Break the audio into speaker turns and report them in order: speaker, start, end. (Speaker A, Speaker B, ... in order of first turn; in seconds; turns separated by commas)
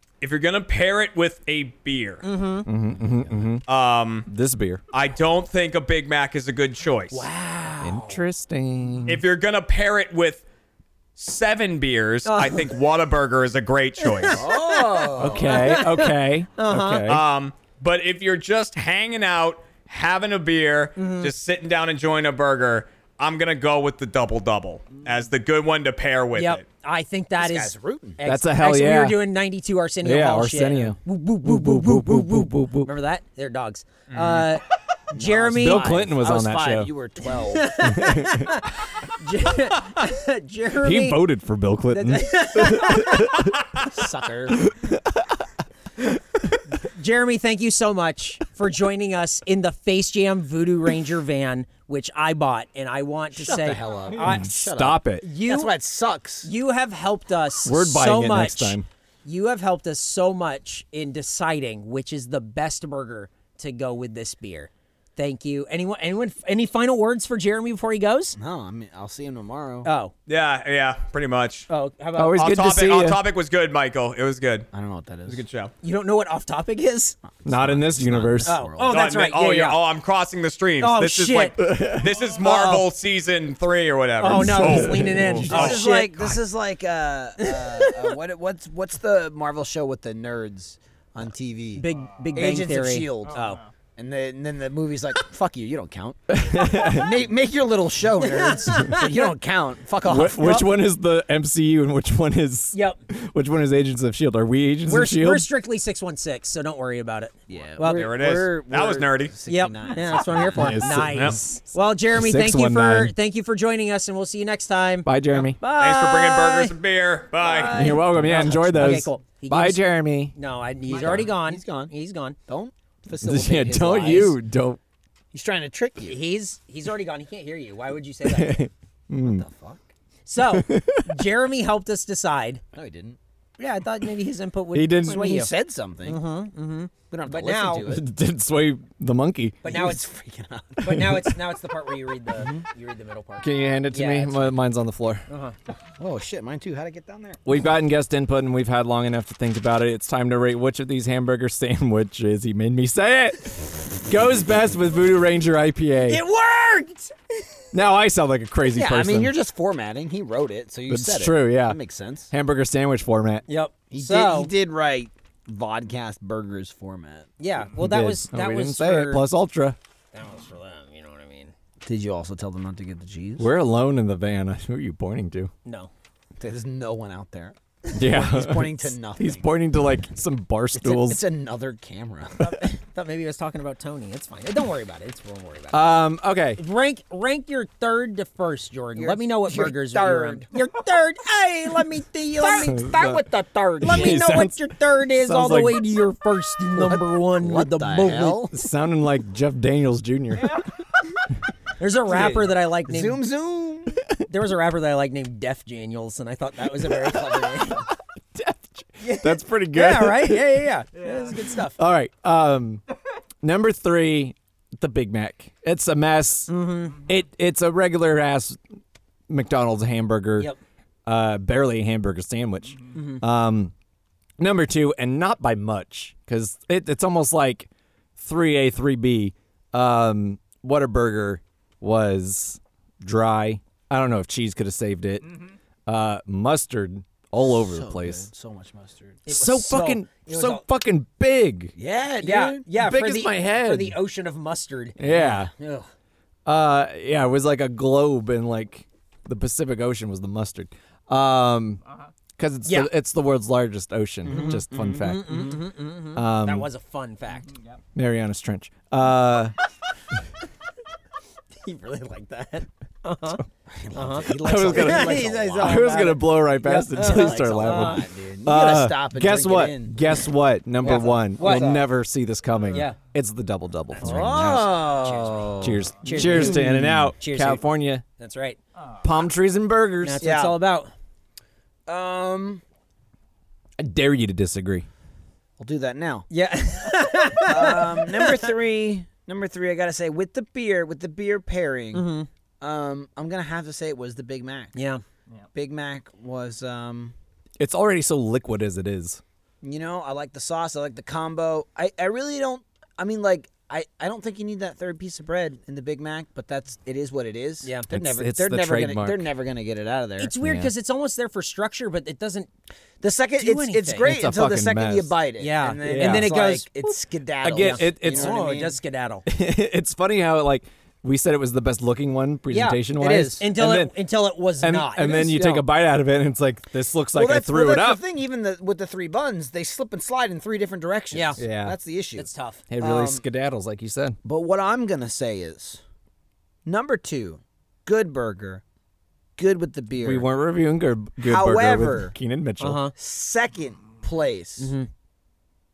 Speaker A: 0.2-2.2, Speaker B: 2.2-2.7, Speaker C: 2.7-3.6, Speaker A: 3.7-4.3, Speaker C: 4.3-4.8, Speaker A: 4.9-7.3, Speaker B: 7.1-8.2, Speaker C: 7.8-9.2, Speaker A: 9.1-10.4, Speaker A: 11.2-14.4, Speaker B: 12.3-12.7, Speaker B: 14.0-17.1, Speaker D: 14.3-15.7, Speaker C: 15.2-17.2, Speaker A: 17.1-26.6, Speaker B: 21.0-21.3, Speaker B: 26.4-35.9, Speaker D: 27.4-28.2, Speaker C: 28.2-29.2, Speaker C: 30.0-32.9, Speaker A: 34.1-34.5, Speaker D: 35.1-38.0, Speaker C: 35.5-36.9, Speaker B: 37.5-41.2, Speaker C: 37.8-38.5, Speaker C: 40.8-43.5, Speaker B: 41.9-43.3, Speaker D: 43.9-44.6, Speaker C: 44.6-45.0, Speaker B: 46.8-55.7, Speaker D: 53.3-56.5, Speaker C: 54.2-55.3, Speaker B: 56.4-68.4, Speaker C: 57.7-58.9, Speaker D: 68.4-69.9, Speaker B: 69.8-70.1, Speaker A: 70.3-71.7, Speaker B: 71.7-72.4, Speaker C: 72.2-73.2, Speaker A: 72.4-74.7, Speaker D: 74.7-75.4, Speaker A: 75.3-75.7, Speaker B: 75.8-77.2, Speaker D: 77.3-79.0, Speaker C: 77.5-78.5, Speaker B: 78.5-79.8, Speaker A: 78.9-85.8, Speaker B: 80.8-81.6, Speaker C: 81.6-82.1, Speaker B: 82.4-82.8, Speaker B: 84.2-86.3, Speaker C: 84.3-85.7, Speaker D: 85.5-93.4, Speaker B: 87.4-88.1, Speaker B: 91.8-93.6, Speaker D: 94.0-100.7, Speaker C: 96.3-97.1, Speaker B: 98.2-99.2, Speaker C: 100.0-105.5, Speaker B: 102.7-103.0, Speaker B: 104.9-108.1, Speaker D: 107.5-110.9, Speaker A: 107.9-109.3, Speaker B: 109.5-116.7, Speaker C: 110.5-111.4, Speaker A: 111.1-111.4, Speaker C: 112.1-113.1, Speaker C: 115.1-115.6, Speaker A: 115.8-118.0, Speaker B: 117.4-122.4, Speaker C: 117.7-120.3, Speaker D: 120.9-121.9, Speaker D: 122.5-124.4, Speaker C: 123.2-124.8, Speaker D: 125.3-126.2, Speaker B: 126.1-128.6, Speaker C: 128.2-129.4, Speaker D: 129.2-129.8, Speaker B: 130.3-132.6, Speaker C: 130.4-131.1, Speaker D: 132.7-133.2, Speaker B: 133.6-135.5, Speaker C: 134.7-135.3, Speaker D: 135.1-136.2, Speaker B: 136.0-137.9, Speaker D: 137.1-138.1, Speaker C: 137.9-139.6, Speaker B: 139.6-140.0, Speaker D: 139.7-141.3, Speaker B: 140.8-144.6, Speaker D: 142.4-142.7, Speaker C: 143.4-145.2, Speaker B: 145.3-145.6, Speaker D: 146.0-147.4, Speaker C: 147.5-156.2, Speaker B: 156.1-157.1, Speaker C: 157.7-159.3, Speaker D: 158.7-162.3, Speaker C: 160.9-161.8, Speaker C: 162.3-163.4, Speaker B: 163.5-164.5, Speaker D: 163.9-167.3, Speaker B: 167.4-169.2, Speaker C: 167.8-169.8, Speaker B: 170.1-171.5, Speaker D: 171.8-173.5, Speaker C: 173.4-175.5, Speaker B: 175.7-175.9, Speaker D: 176.4-179.5, Speaker C: 177.9-181.2, Speaker D: 180.8-182.5, Speaker B: 182.4-186.0, Speaker C: 185.7-186.6, Speaker B: 186.6-198.4, Speaker D: 189.0-190.5, Speaker D: 192.4-192.8, Speaker C: 192.6-193.2, Speaker C: 193.8-195.8, Speaker D: 193.8-194.1, Speaker D: 196.8-198.5, Speaker C: 198.5-200.6, Speaker B: 201.8-203.2, Speaker D: 202.1-204.0, Speaker B: 204.3-207.9, Speaker D: 207.1-207.5, Speaker C: 208.3-210.6, Speaker B: 209.0-211.8, Speaker C: 211.8-212.8, Speaker C: 213.4-216.5, Speaker B: 216.5-217.0, Speaker C: 217.1-218.6, Speaker C: 219.3-220.5, Speaker C: 221.1-223.7, Speaker B: 222.9-223.2, Speaker C: 224.4-235.3, Speaker C: 235.9-238.3, Speaker D: 237.4-239.3, Speaker B: 239.3-240.6, Speaker C: 239.3-241.7, Speaker D: 241.8-242.7, Speaker B: 242.2-245.5, Speaker C: 242.8-244.0, Speaker C: 245.0-245.5, Speaker D: 245.1-245.9, Speaker C: 246.5-251.8, Speaker C: 252.4-255.6, Speaker D: 254.3-255.6, Speaker B: 254.3-257.5, Speaker C: 256.1-256.7, Speaker C: 257.9-259.6, Speaker B: 261.6-263.4, Speaker D: 263.7-265.9, Speaker B: 263.9-268.1, Speaker C: 264.4-274.8, Speaker D: 267.0-270.0, Speaker B: 270.8-271.8, Speaker D: 270.9-271.8, Speaker D: 274.0-276.6, Speaker B: 274.9-277.6, Speaker C: 275.6-278.0, Speaker B: 278.2-278.6, Speaker C: 279.0-280.2, Speaker B: 280.0-280.9, Speaker D: 280.2-280.6, Speaker D: 281.9-282.6, Speaker C: 283.8-284.9, Speaker D: 285.6-286.3, Speaker B: 286.3-288.5, Speaker D: 287.4-294.8, Speaker B: 291.9-292.3, Speaker B: 294.8-295.0, Speaker D: 295.5-297.1, Speaker C: 297.6-299.2, Speaker D: 299.6-310.3, Speaker C: 307.9-309.3, Speaker B: 310.2-312.5, Speaker C: 310.4-310.7, Speaker D: 313.0-318.8, Speaker B: 313.4-314.1, Speaker C: 314.0-315.1, Speaker B: 315.4-316.7, Speaker C: 315.8-316.3, Speaker C: 316.8-318.3, Speaker B: 317.5-319.2, Speaker C: 319.3-323.9, Speaker B: 322.5-322.8, Speaker D: 323.0-323.5, Speaker B: 323.4-325.3, Speaker C: 324.6-328.0, Speaker D: 325.1-325.6, Speaker D: 327.1-332.3, Speaker B: 331.1-331.4, Speaker C: 331.4-331.8, Speaker B: 332.2-332.6, Speaker C: 332.7-334.2, Speaker D: 332.8-333.2, Speaker D: 334.2-335.8, Speaker D: 336.7-338.6, Speaker D: 339.4-340.3, Speaker C: 340.0-342.8, Speaker D: 341.2-342.1, Speaker B: 342.6-342.9, Speaker D: 343.0-344.7, Speaker B: 344.6-344.9